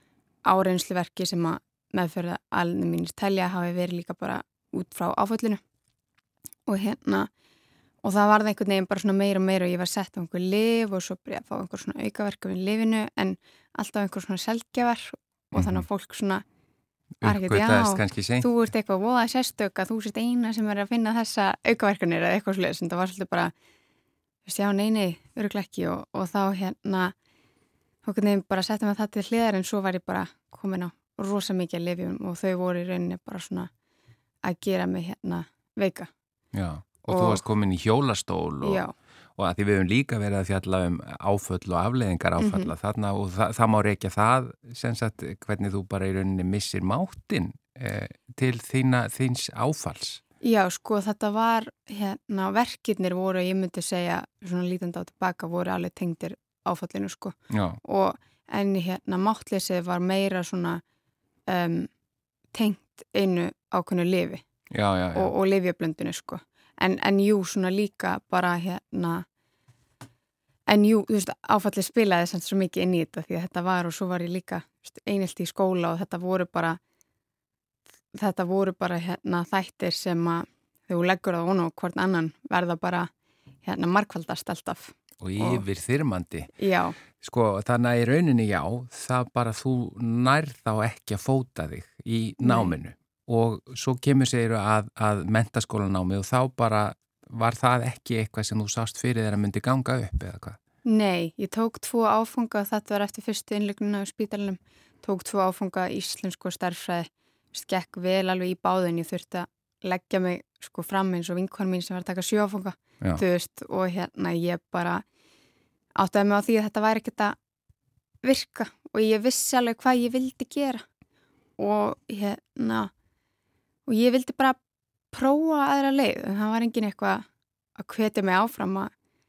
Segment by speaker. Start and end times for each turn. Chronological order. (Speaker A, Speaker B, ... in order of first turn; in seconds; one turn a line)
Speaker A: 0.4-5.6
Speaker A: 6.7-7.3
Speaker A: 8.0-16.4
Speaker B: 15.6-15.8
Speaker B: 17.2-18.5
Speaker A: 17.2-23.5
Speaker A: 24.4-27.1
Speaker A: 28.0-33.7
Speaker A: 34.4-36.1
Speaker B: 36.5-38.8
Speaker A: 37.1-37.4
Speaker A: 38.6-38.9
Speaker B: 39.4-50.2
Speaker A: 42.4-42.7
Speaker A: 50.4-60.8
Speaker B: 57.5-57.8
Speaker A: 61.5-61.9
Speaker A: 62.5-64.4
Speaker B: 64.7-65.3
Speaker A: 65.1-69.2
Speaker A: 70.7-76.8
Speaker A: 78.1-83.1
Speaker A: 83.6-85.6
Speaker B: 85.2-86.5
Speaker A: 86.6-87.0
Speaker B: 87.1-100.6
Speaker A: 92.4-92.7
Speaker A: 100.8-115.0
Speaker A: 116.0-117.3
Speaker A: 118.2-120.8
Speaker A: 121.6-122.9
Speaker A: 123.9-124.6
Speaker A: 125.1-127.2
Speaker A: 127.8-128.9